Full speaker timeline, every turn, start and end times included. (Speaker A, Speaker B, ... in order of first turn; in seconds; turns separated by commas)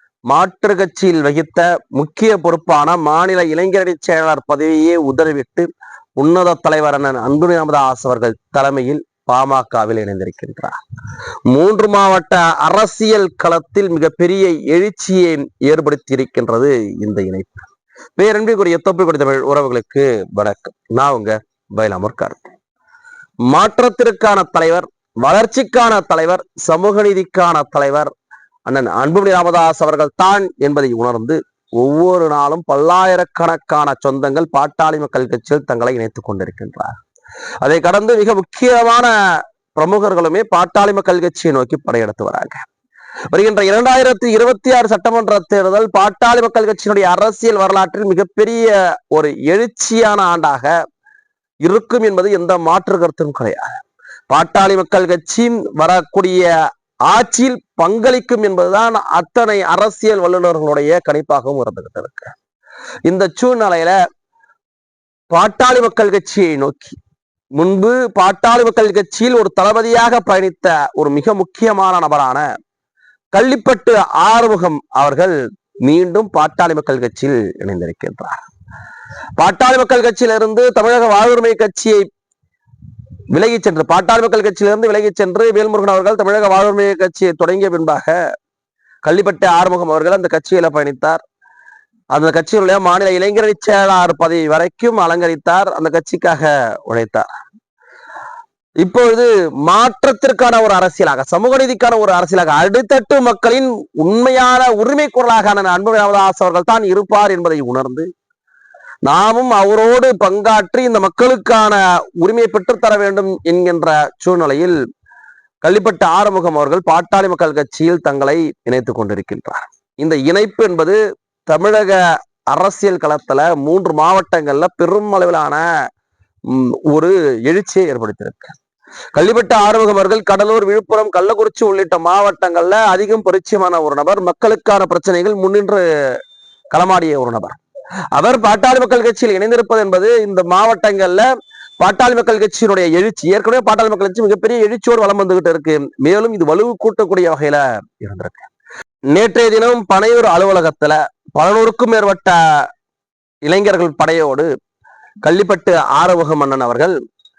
Speaker A: 0.3-10.8, Speaker A: 11.5-22.5, Speaker A: 23.5-28.1, Speaker A: 28.7-37.0, Speaker A: 37.6-39.1, Speaker A: 39.7-42.6, Speaker A: 43.3-50.7, Speaker A: 51.6-56.5, Speaker A: 57.1-62.3, Speaker A: 63.0-63.9, Speaker A: 65.3-67.0, Speaker A: 67.5-72.4, Speaker A: 73.3-78.4, Speaker A: 79.4-82.0, Speaker A: 83.3-88.1, Speaker A: 89.0-91.2, Speaker A: 92.1-97.3, Speaker A: 98.8-108.1, Speaker A: 109.0-114.7, Speaker A: 115.6-121.0, Speaker A: 121.5-125.6, Speaker A: 126.5-128.5, Speaker A: 129.1-136.2, Speaker A: 136.7-137.6, Speaker A: 138.1-141.3, Speaker A: 141.8-148.5, Speaker A: 149.1-152.7, Speaker A: 153.4-154.5, Speaker A: 155.2-156.9